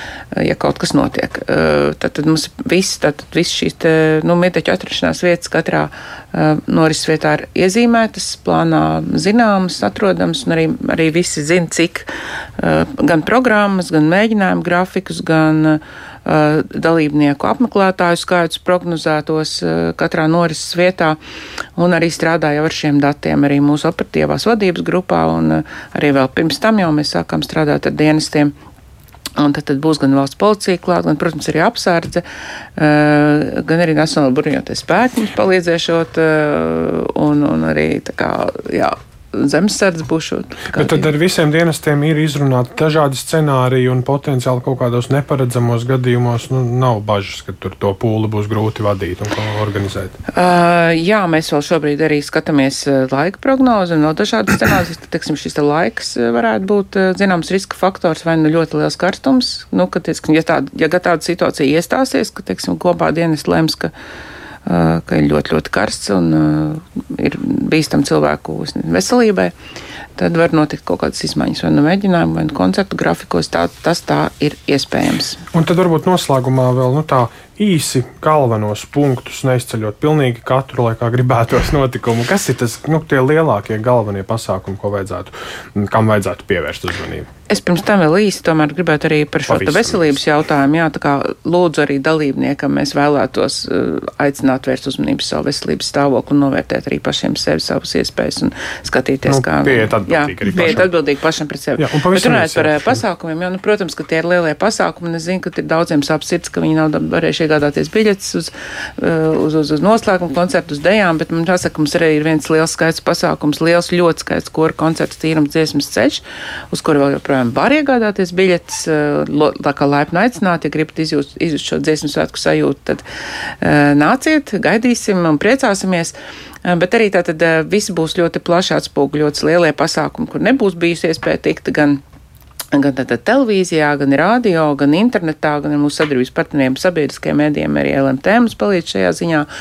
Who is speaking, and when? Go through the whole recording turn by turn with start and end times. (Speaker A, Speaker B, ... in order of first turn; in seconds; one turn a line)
Speaker A: 0.3-21.2
Speaker A: 21.8-28.5
Speaker A: 29.4-32.2
Speaker A: 32.8-41.1
Speaker B: 40.7-50.1
Speaker A: 50.3-63.9
Speaker A: 64.6-69.5
Speaker A: 70.2-75.4
Speaker B: 75.5-87.3
Speaker A: 87.5-123.0
Speaker B: 89.5-90.2
Speaker B: 99.2-100.9
Speaker B: 101.8-103.0
Speaker A: 123.6-132.0
Speaker A: 132.7-139.5